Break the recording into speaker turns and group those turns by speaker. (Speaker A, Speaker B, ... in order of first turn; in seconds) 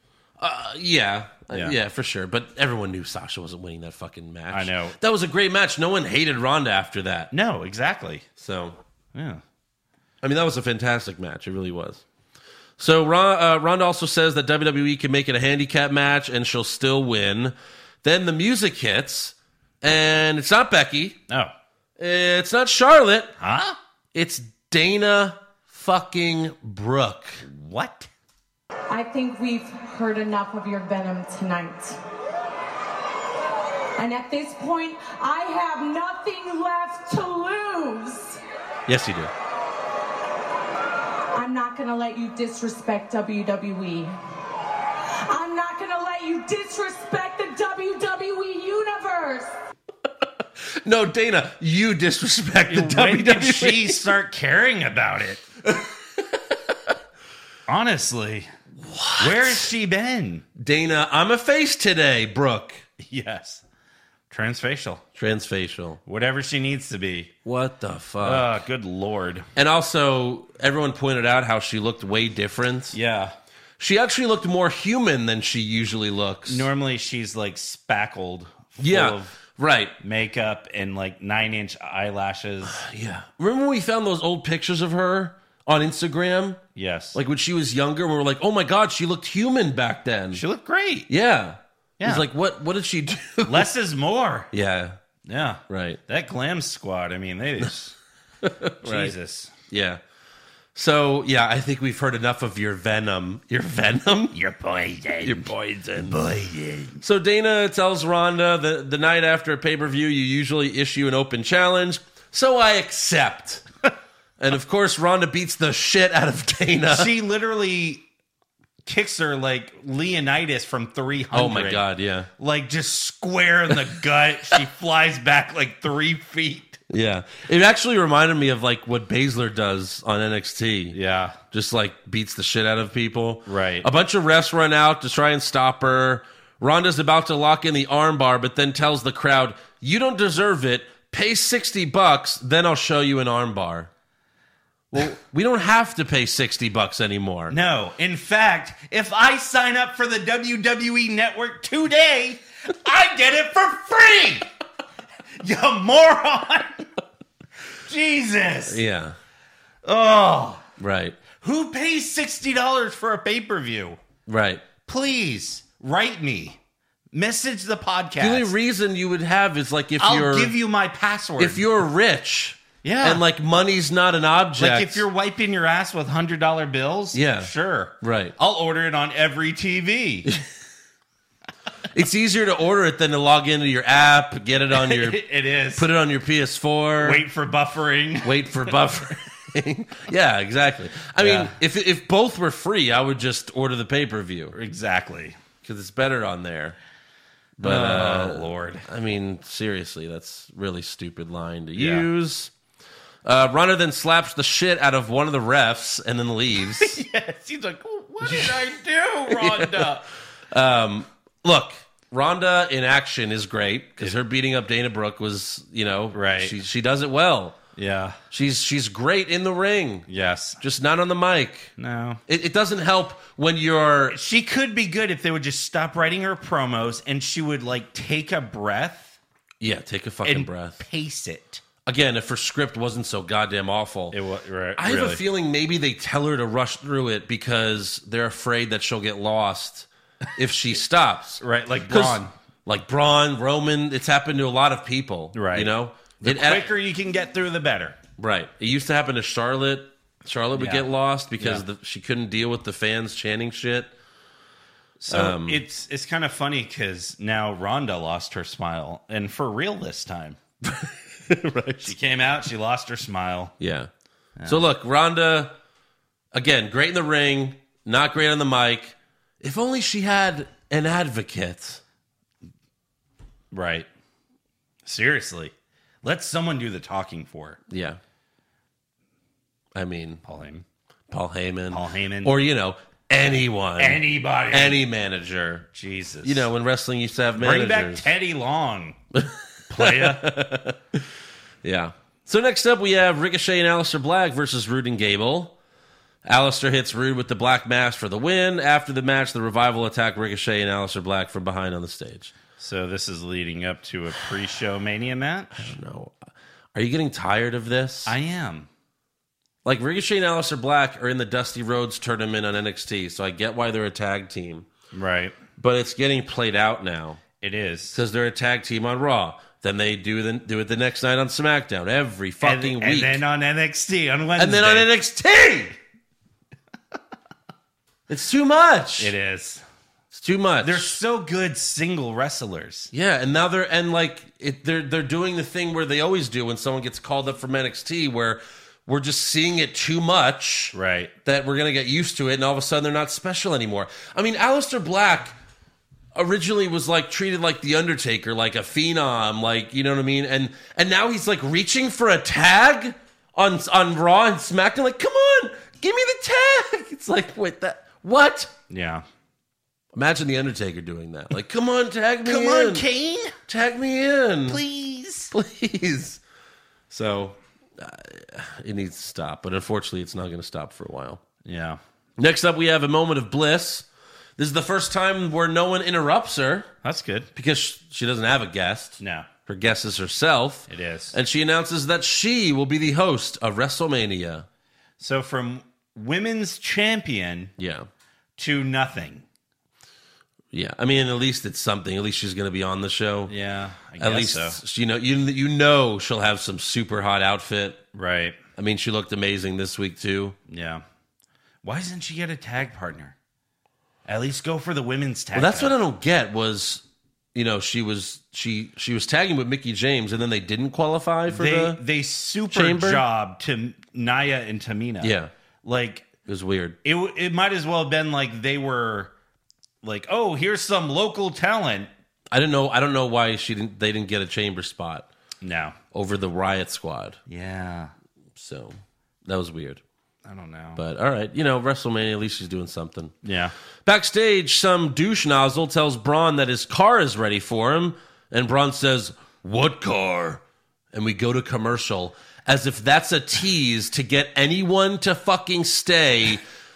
Speaker A: 0.4-7.3, 8.4-8.8, 10.2-12.0, 12.8-21.2, 22.0-23.3, 24.1-27.4, 38.9-39.3, 50.6-54.1, 55.6-56.2, 58.8-59.7, 60.6-62.8, 65.1-66.0, 67.4-68.5, 69.5-73.0, 73.8-76.7, 78.8-79.9, 82.7-86.6, 87.1-90.4, 91.1-93.7, 94.5-95.0, 95.7-96.0, 98.4-99.1, 99.7-100.0, 100.7-104.3, 105.2-106.2, 107.0-113.6, 114.4-117.1, 121.3-122.3, 126.9-131.0, 131.5-143.9, 144.9-147.5, 158.7-159.2, 160.8-161.2, 164.2-164.6, 168.2-170.5, 171.4-175.1, 177.1-178.3, 181.9-185.2, 185.8-187.2, 188.2-194.5, 195.6-196.8, 197.6-202.5, 203.2-207.0, 208.2-208.7, 209.3-210.0, 210.5-217.6, 218.3-220.1, 220.6-221.7, 222.3-224.2, 229.6-230.8, 231.8-234.2, 234.8-246.7, 248.2-253.9, 255.1-255.6, 260.6-261.9, 263.6-263.9, 264.4-265.5, 266.3-271.8, 277.7-278.0, 279.7-280.2, 281.1-285.7, 286.2-288.1, 289.1-291.1, 291.6-295.5, 296.2-302.3, 305.5-306.2, 306.7-308.1, 309.6-314.7, 315.6-317.2, 317.9-323.2, 324.4-325.7, 328.1-329.1, 330.1-330.9, 332.9-345.4, 346.1-358.5, 359.9-362.9, 363.5-364.6, 365.3-366.2, 366.9-371.2, 372.2-373.9, 374.4-376.7, 377.3-384.4, 387.6-387.9, 390.5-393.3, 394.0-397.8, 398.6-400.4, 405.3-411.8, 412.5-413.0, 415.0-415.3, 416.2-416.8, 422.3-425.1, 425.9-427.2, 428.4-429.8, 430.8-433.1, 433.8-446.4
Speaker B: 1.5-1.8, 4.5-5.0, 7.3-8.2, 9.1-9.4, 23.4-23.8, 27.4-28.1, 52.7-55.5, 57.7-58.5, 59.2-60.5, 63.0-63.6, 64.3-65.0, 66.0-67.3, 68.2-69.5, 72.9-73.3, 76.5-79.4, 80.0-82.8, 86.7-87.2, 90.3-91.1, 92.0-92.3, 93.4-94.5, 95.2-97.9, 98.8-99.5, 104.3-105.5, 106.0-107.0, 116.9-118.0, 118.8-121.8, 122.4-126.8, 130.9-131.4, 133.4-133.9, 147.5-154.4, 155.4-156.9, 157.8-158.8, 159.8-160.6, 161.4-164.0, 164.8-166.6, 167.1-168.5, 170.0-171.6, 172.8-173.2, 174.6-180.3, 184.7-185.8, 187.0-188.6, 191.2-191.5, 194.5-195.4, 197.6-198.8, 201.7-202.1, 206.8-210.0, 216.1-216.5, 217.8-218.2, 220.1-220.6, 221.8-222.2, 224.1-229.2, 230.2-231.6, 234.1-235.2, 241.4-242.3, 245.3-248.0, 250.5-250.9, 255.0-260.4, 261.8-263.5, 264.4-264.6, 273.5-273.9, 274.8-277.6, 280.2-280.6, 281.7-282.3, 283.8-284.8, 285.7-286.5, 287.3-289.0, 289.7-290.3, 302.6-305.7, 308.1-308.7, 314.9-315.4, 317.4-318.0, 322.4-324.9, 329.0-329.6, 330.6-332.9, 340.7-341.1, 358.7-359.0, 362.2-363.3, 364.5-365.3, 371.4-371.8, 376.8-377.3, 379.0-379.3, 380.7-381.2, 385.0-387.5, 388.4-389.2, 393.3-394.6, 397.9-398.4, 400.5-400.8, 401.6-403.1, 404.1-405.8, 411.3-416.1, 416.8-419.1, 419.8-421.9, 425.4-425.8, 427.3-427.9, 430.2-430.8, 433.2-433.5
Speaker C: 28.9-32.0, 34.0-38.4, 41.3-44.1, 45.3-49.5